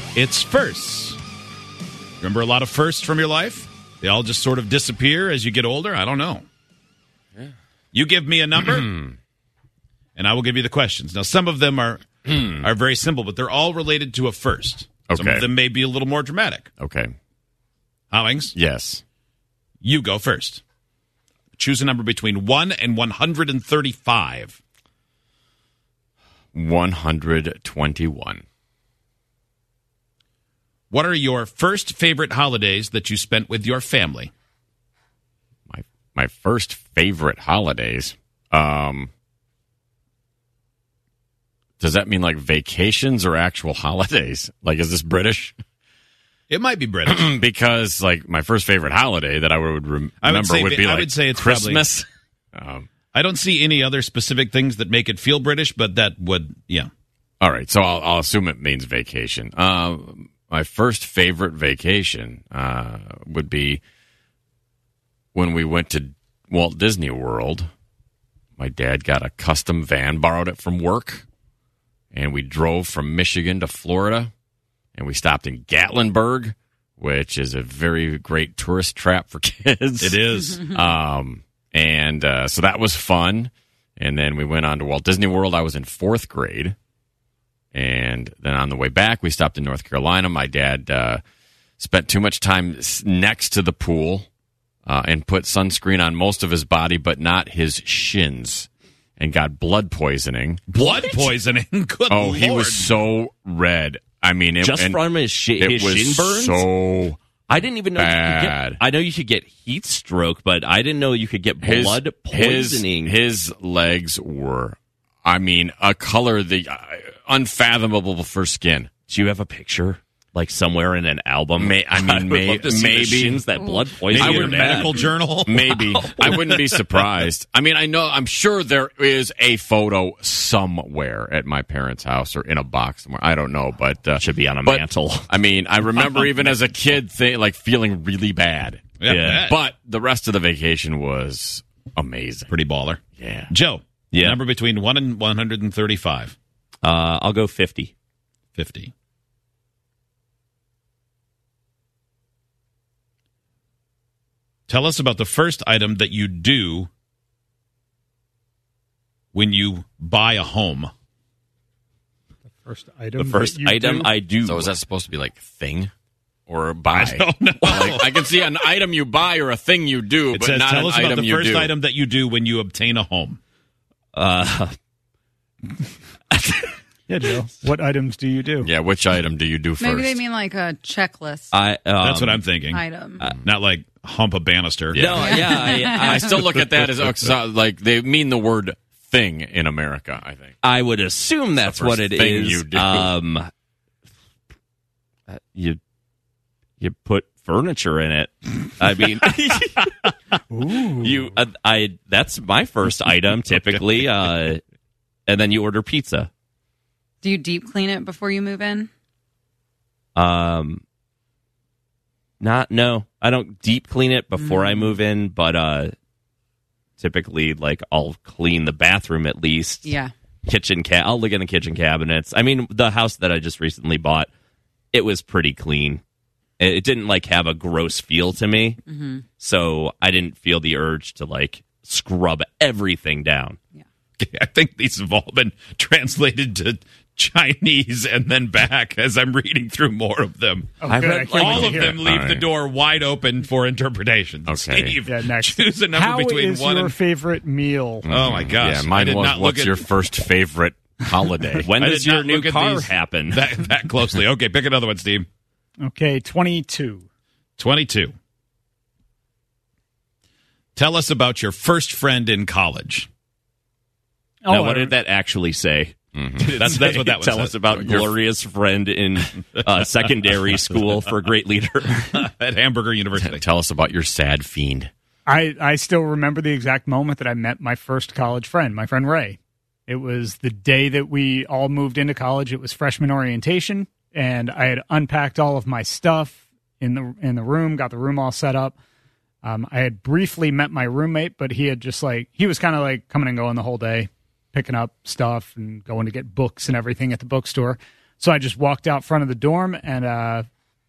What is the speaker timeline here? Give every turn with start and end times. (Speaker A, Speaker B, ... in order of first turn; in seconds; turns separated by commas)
Speaker A: 0.1-1.2, Speaker A: 2.2-6.5, Speaker A: 7.9-9.0, Speaker A: 10.2-16.7, Speaker B: 15.1-15.5, Speaker B: 16.8-17.1, Speaker A: 18.1-18.5, Speaker B: 18.5-19.0, Speaker A: 19.8-20.6, Speaker A: 21.6-24.6, Speaker B: 26.5-28.4, Speaker A: 30.9-34.3, Speaker B: 35.7-39.1, Speaker B: 41.8-45.6, Speaker A: 46.5-47.3, Speaker B: 47.1-52.9, Speaker A: 50.2-51.9, Speaker A: 53.1-56.9, Speaker B: 57.4-63.8, Speaker B: 65.3-67.7, Speaker B: 68.6-71.2, Speaker B: 72.1-74.3, Speaker B: 75.0-86.8, Speaker A: 80.0-80.6, Speaker B: 87.7-91.2, Speaker B: 91.8-94.3, Speaker B: 94.9-100.6, Speaker A: 100.7-102.9, Speaker B: 102.1-107.2, Speaker C: 104.6-106.7, Speaker C: 107.5-113.2, Speaker B: 108.0-108.8, Speaker B: 111.6-118.9, Speaker C: 119.1-125.0, Speaker B: 121.6-142.5, Speaker A: 124.1-125.6, Speaker C: 125.7-127.1, Speaker C: 134.2-135.3, Speaker A: 139.0-139.6, Speaker C: 139.1-139.4, Speaker A: 142.5-146.3, Speaker B: 143.2-143.5, Speaker C: 144.1-144.4, Speaker C: 146.8-147.9, Speaker A: 148.6-148.9, Speaker A: 154.7-156.9, Speaker A: 159.3-160.9, Speaker D: 162.5-164.1, Speaker C: 163.2-164.7, Speaker B: 164.4-165.9, Speaker B: 166.5-171.7, Speaker A: 166.9-168.1, Speaker A: 170.3-173.4, Speaker C: 174.1-174.7, Speaker D: 177.1-178.7, Speaker B: 178.6-180.2, Speaker E: 179.8-181.5, Speaker C: 181.5-182.4, Speaker A: 182.0-182.8, Speaker E: 182.7-183.2, Speaker A: 183.4-185.0, Speaker B: 184.9-190.6, Speaker C: 185.0-187.1, Speaker E: 185.2-186.2, Speaker C: 190.6-193.5, Speaker B: 191.6-193.1, Speaker C: 195.3-195.8, Speaker C: 196.8-200.1, Speaker D: 200.5-201.2, Speaker C: 201.0-204.6, Speaker C: 205.3-206.3, Speaker E: 207.2-208.9, Speaker C: 210.2-210.8, Speaker C: 212.4-215.9, Speaker E: 214.4-214.9, Speaker C: 217.0-219.9, Speaker E: 219.8-220.1, Speaker C: 220.4-224.3, Speaker C: 224.9-226.0, Speaker C: 226.6-228.8, Speaker E: 228.9-229.2, Speaker C: 229.4-233.6, Speaker A: 234.2-240.7, Speaker D: 240.8-242.0, Speaker C: 240.9-241.8, Speaker A: 241.3-246.9, Speaker B: 242.0-242.4, Speaker B: 244.5-245.0, Speaker D: 245.1-248.1, Speaker B: 248.1-251.7, Speaker A: 248.1-249.8, Speaker C: 251.6-253.5, Speaker A: 251.8-255.3, Speaker D: 255.8-257.0, Speaker A: 257.6-258.1, Speaker A: 260.8-263.1, Speaker D: 264.4-265.0, Speaker C: 264.5-272.1, Speaker B: 266.1-266.5, Speaker A: 266.6-268.1, Speaker B: 267.7-268.1, Speaker A: 272.1-273.4, Speaker B: 273.1-274.9, Speaker D: 275.3-279.4, Speaker D: 279.9-288.8, Speaker D: 289.4-300.5